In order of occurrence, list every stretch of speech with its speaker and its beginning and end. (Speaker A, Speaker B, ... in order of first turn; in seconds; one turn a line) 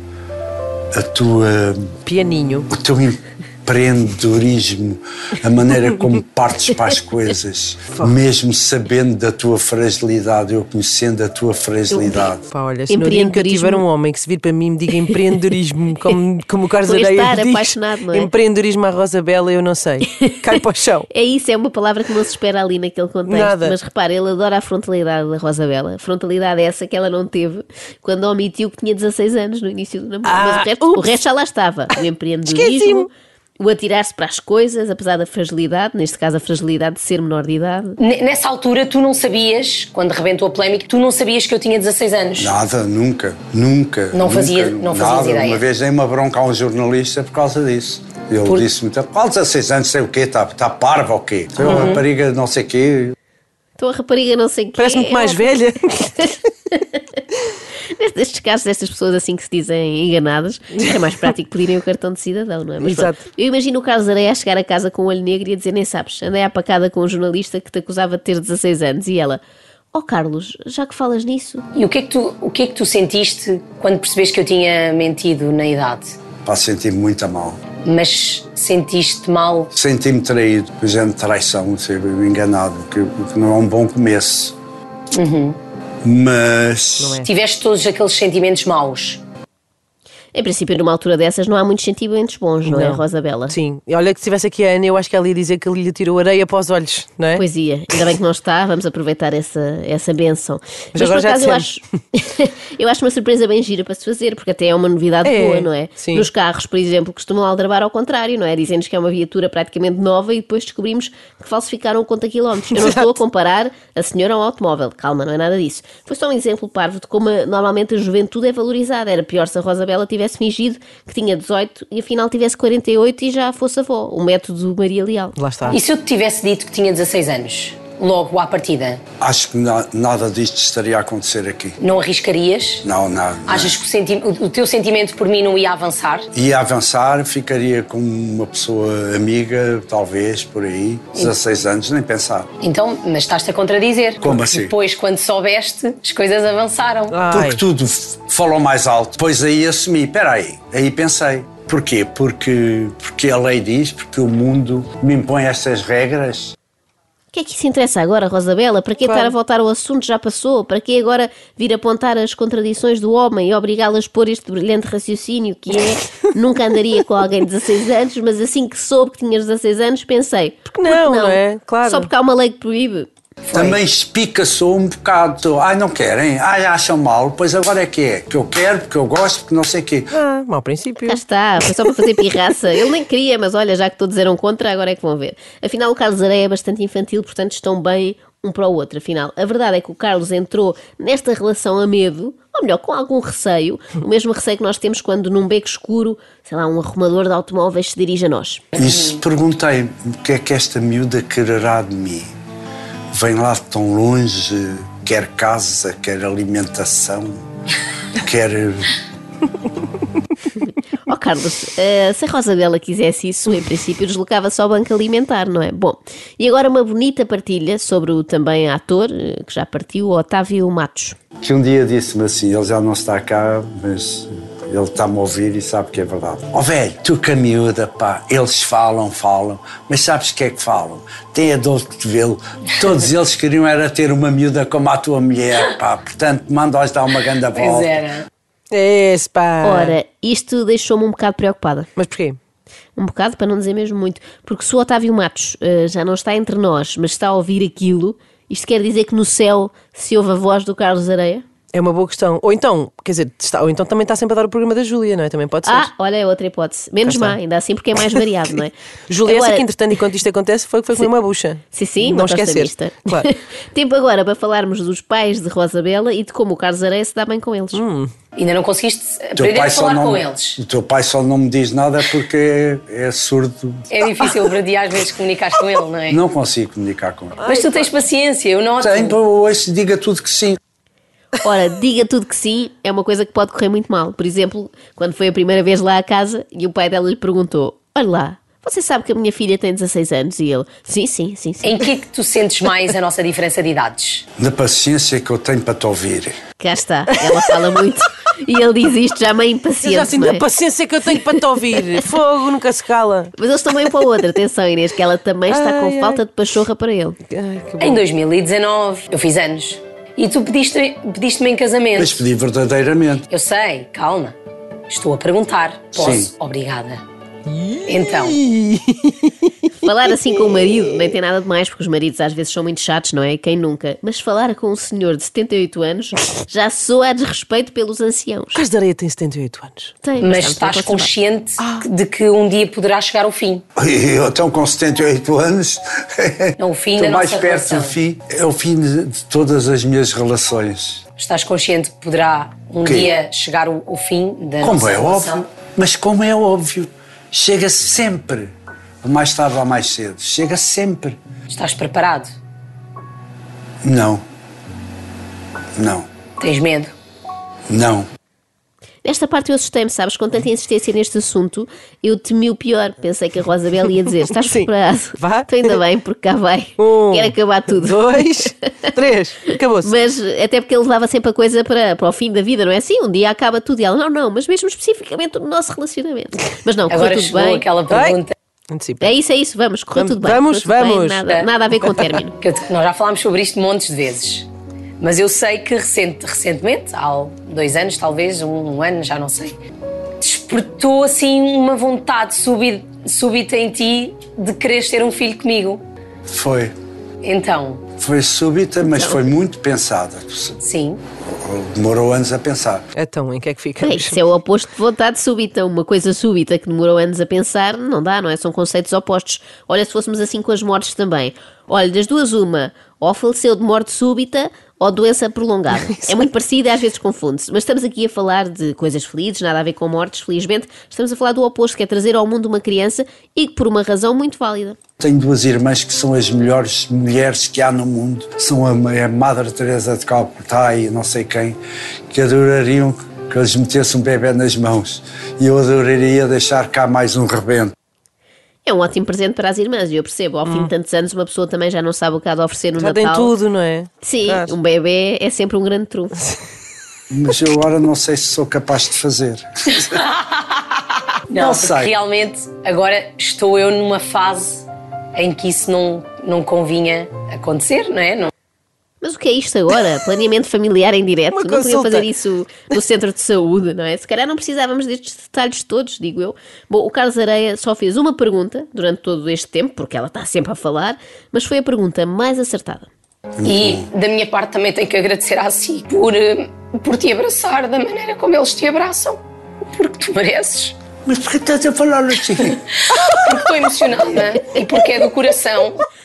Speaker A: 0.9-1.9
Speaker B: 2.1-2.7
Speaker A: 2.7-12.4
Speaker C: 11.9-12.3
Speaker B: 12.5-21.1
Speaker C: 12.9-13.8
Speaker C: 16.8-18.3
Speaker C: 21.1-33.1
Speaker B: 23.2-23.8
Speaker B: 30.2-31.1
Speaker B: 32.5-33.1
Speaker C: 33.6-38.0
Speaker D: 38.0-42.5
Speaker A: 42.4-53.1
Speaker D: 44.1-45.6
Speaker B: 51.6-52.0
Speaker D: 51.6-52.0
Speaker C: 53.8-55.5
Speaker B: 54.8-56.4
Speaker C: 56.7-57.0
Speaker C: 57.9-69.4
Speaker B: 62.8-63.2
Speaker C: 69.9-71.6
Speaker D: 71.7-76.2
Speaker A: 76.4-77.6
Speaker D: 77.8-79.7
Speaker A: 79.7-84.6
Speaker D: 85.1-85.6
Speaker A: 86.0-87.2
Speaker B: 87.0-87.3
Speaker D: 87.2-89.2
Speaker C: 90.3-93.6
Speaker B: 92.6-97.4
Speaker C: 97.3-125.4
Speaker B: 100.9-101.7
Speaker B: 105.2-106.3
Speaker B: 125.4-125.8
Speaker D: 125.7-129.0
Speaker A: 129.2-131.8
Speaker D: 131.8-132.9
Speaker A: 132.8-133.8
Speaker D: 133.4-136.3
Speaker A: 136.3-142.5
Speaker D: 142.6-147.2
Speaker A: 144.2-144.7
Speaker B: 147.1-147.6
Speaker A: 147.3-156.5
Speaker C: 157.3-173.1
Speaker B: 159.1-159.3
Speaker B: 170.7-172.1
Speaker D: 173.5-173.8
Speaker A: 173.5-180.1
Speaker B: 180.1-181.2
Speaker C: 181.1-198.7
Speaker A: 198.8-202.3
Speaker D: 198.8-199.2
Speaker A: 203.1-207.4
Speaker A: 208.2-209.0
Speaker C: 211.1-221.2
Speaker A: 221.4-238.1
Speaker D: 237.5-238.2
Speaker B: 238.7-239.9
Speaker C: 239.6-241.9
Speaker B: 242.0-242.4
Speaker C: 242.9-251.4
Speaker B: 251.7-255.9
Speaker C: 255.6-259.8
Speaker B: 257.0-257.4
Speaker B: 259.1-263.2
Speaker C: 261.7-267.8
Speaker B: 267.7-268.1
Speaker D: 268.4-270.6
Speaker A: 269.4-273.9
Speaker D: 273.9-276.2
Speaker A: 276.1-277.5
Speaker B: 277.4-277.9
Speaker D: 277.4-279.2
Speaker A: 278.8-280.6
Speaker C: 281.4-291.9
Speaker D: 291.6-294.2
Speaker A: 294.4-296.3
Speaker C: 296.6-300.4
Speaker B: 299.8-303.3
Speaker C: 301.1-301.9
Speaker C: 303.4-307.2
Speaker B: 305.5-306.2
Speaker B: 307.3-308.0
Speaker D: 307.8-312.2
Speaker A: 312.0-313.3
Speaker D: 313.3-314.3
Speaker D: 314.9-317.0
Speaker A: 315.9-316.3
Speaker B: 317.5-319.7
Speaker D: 317.9-318.4
Speaker C: 319.8-328.7
Speaker B: 328.6-329.9
Speaker C: 330.0-331.1
Speaker D: 330.2-333.6
Speaker B: 331.6-331.9
Speaker A: 333.8-341.0
Speaker D: 336.6-337.9
Speaker D: 341.2-345.5
Speaker A: 342.8-343.1
Speaker A: 344.6-351.2
Speaker D: 351.5-352.3
Speaker A: 353.8-354.2
Speaker A: 355.8-356.1
Speaker D: 356.4-356.9
Speaker A: 357.7-358.1
Speaker C: 359.0-368.9
Speaker B: 364.4-365.7
Speaker B: 366.8-369.9
Speaker C: 369.8-377.6
Speaker D: 376.9-378.3
Speaker B: 377.9-378.2
Speaker B: 378.7-379.1
Speaker C: 379.0-382.3
Speaker B: 379.9-381.2
Speaker D: 382.4-384.5
Speaker D: 385.0-389.6
Speaker D: 390.2-395.8
Speaker A: 396.3-396.7
Speaker D: 397.2-397.8
Speaker A: 398.0-400.6
Speaker C: 398.8-399.2
Speaker D: 400.6-401.0
Speaker A: 401.3-402.9
Speaker B: 402.9-404.2
Speaker C: 403.8-424.8
Speaker A: 425.0-431.6
Speaker A: 432.1-437.7
Speaker C: 438.7-443.3
Speaker B: 442.8-444.6
Speaker C: 444.0-446.3
Speaker A: 447.1-450.0
Speaker D: 449.8-450.6
Speaker D: 451.3-458.3
Speaker A: 451.3-451.9
Speaker C: 459.0-472.9
Speaker B: 461.3-462.1
Speaker A: 473.4-473.9
Speaker D: 473.4-479.2
Speaker D: 479.7-480.8
Speaker A: 481.1-482.6
Speaker D: 482.4-485.8